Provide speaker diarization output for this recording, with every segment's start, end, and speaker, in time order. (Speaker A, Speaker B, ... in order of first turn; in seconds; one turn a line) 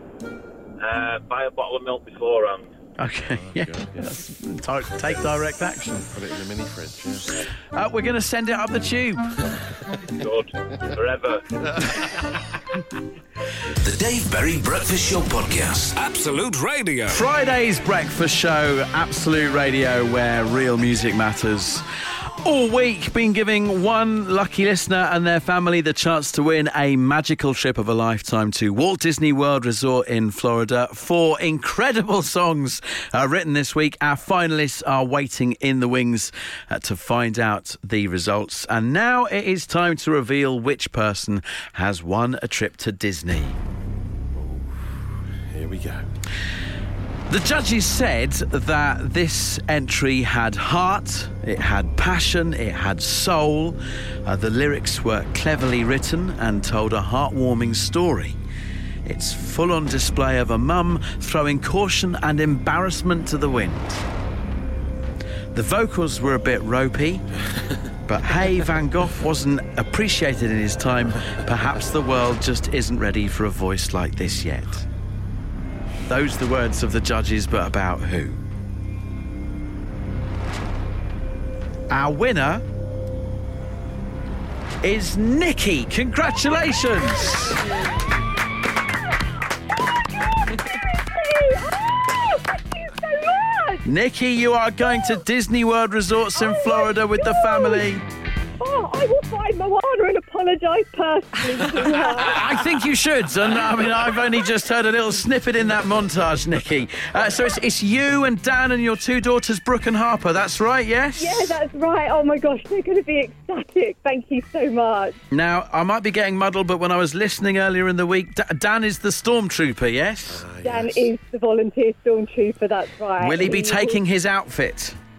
Speaker A: 0.8-2.7
Speaker B: 3.0-6.1
Speaker C: 3.2-4.3
Speaker C: 5.9-7.4
Speaker B: 7.7-9.2
Speaker A: 10.1-11.6
Speaker C: 11.6-12.4
Speaker D: 13.8-17.3
Speaker B: 17.1-21.8
Speaker B: 22.4-43.6
Speaker C: 44.3-46.1
Speaker B: 47.3-58.4
Speaker B: 59.0-64.0
Speaker B: 65.5-67.2
Speaker B: 68.0-74.8
Speaker B: 76.1-78.4
Speaker B: 81.9-82.6
Speaker B: 84.8-87.6
Speaker E: 89.7-93.8
Speaker B: 93.8-98.0
Speaker E: 94.8-95.2
Speaker E: 96.3-97.9
Speaker E: 98.6-102.6
Speaker B: 102.2-111.5
Speaker E: 104.0-104.5
Speaker E: 111.2-115.2
Speaker B: 115.3-120.4
Speaker C: 120.3-121.1
Speaker E: 120.6-124.0
Speaker B: 123.2-125.0